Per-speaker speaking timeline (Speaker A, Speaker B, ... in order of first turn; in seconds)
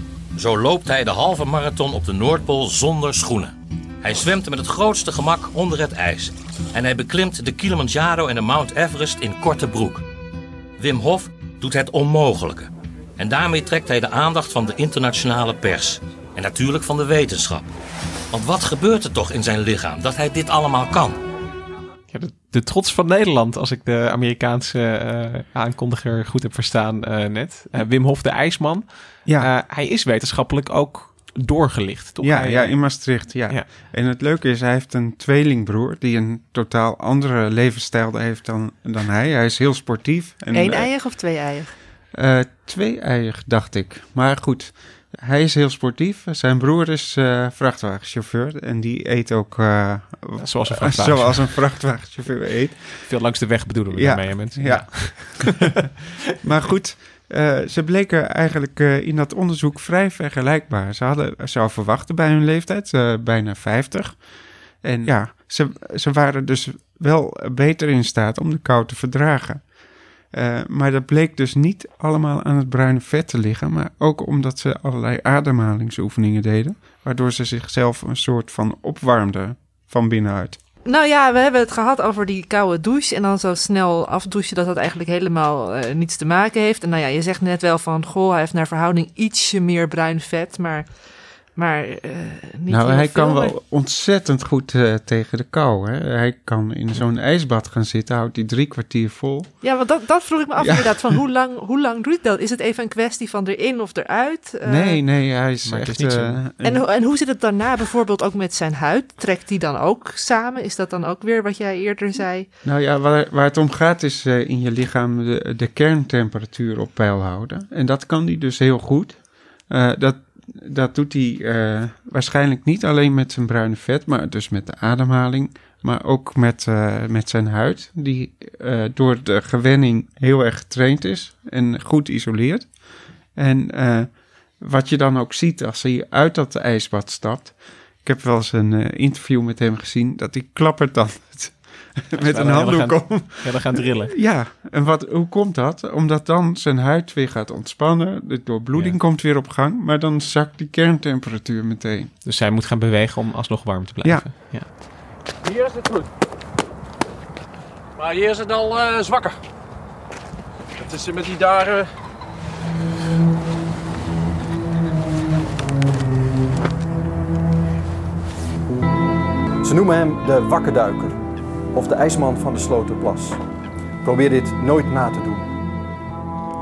Speaker A: 0.3-10.0, 10.8-17.7, 18.3-21.2
Speaker B: 22.1-33.7, 50.4-51.9, 53.0-55.7, 105.6-106.4, 142.2-144.2, 148.7-149.0, 152.2-154.7
Speaker C: 29.2-29.5, 32.2-40.9, 42.1-53.3, 53.9-55.7, 56.4-80.6, 92.7-99.6, 100.6-101.0, 104.6-106.9, 112.6-152.1, 154.0-154.3
Speaker D: 40.5-41.7, 80.8-93.5, 99.6-105.0, 106.6-112.5
Speaker E: 155.4-156.1, 157.9-159.4, 160.8-161.9
Speaker F: 169.6-171.2, 171.7-173.4, 174.0-175.5